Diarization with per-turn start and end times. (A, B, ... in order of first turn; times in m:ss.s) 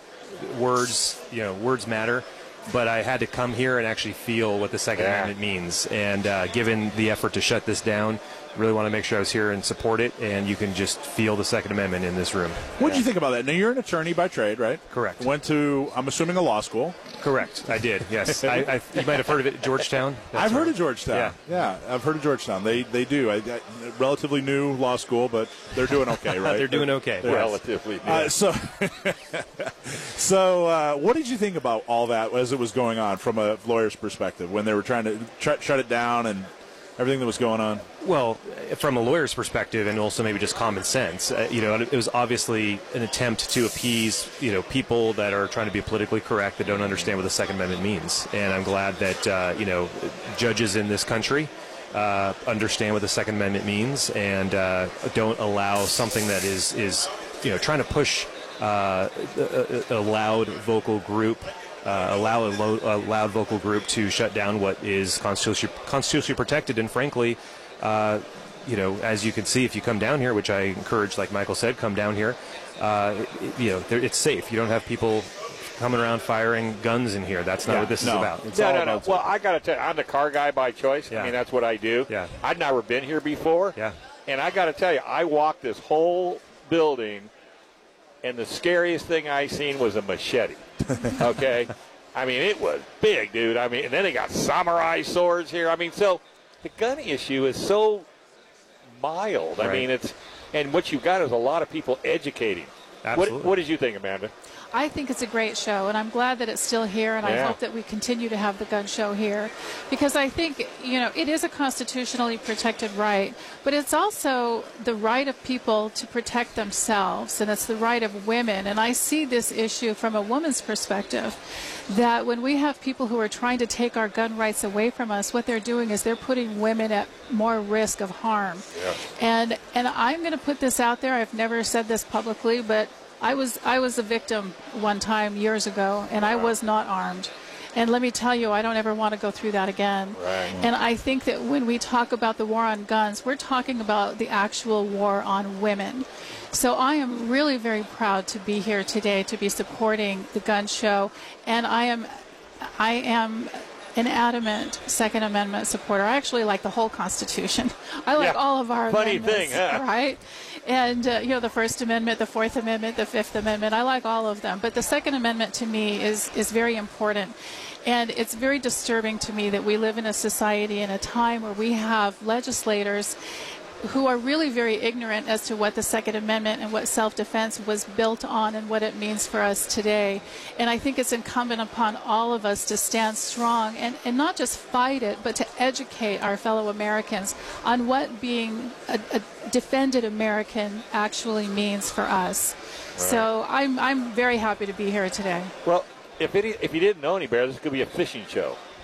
0:00.3-0:12.8 A
0:05.0-0:05.3 B
0:12.8-0:17.0 C
0:14.9-0:15.3 A
0:17.2-0:21.4 A
0:20.3-0:37.8 C
0:26.1-0:27.6 A
0:27.2-0:28.3 B
0:38.0-1:18.4 A
0:46.7-0:47.1 C
1:17.7-1:19.2 C
1:18.5-1:23.7 B
1:22.1-1:22.3 A
1:24.3-1:27.3 B
1:28.2-1:38.1 B
1:39.0-1:44.3 B
1:39.6-1:39.8 A
1:43.0-1:43.5 A
1:44.7-2:08.6 D
1:47.2-1:47.6 B
2:09.2-2:32.1 D
2:16.2-2:16.5 B
2:20.2-2:20.5 B
2:32.8-2:47.4 D
2:38.2-2:39.8 B
2:47.9-2:53.2 D
2:53.8-3:15.5 D
3:13.0-3:13.3 B
3:15.6-3:18.6 B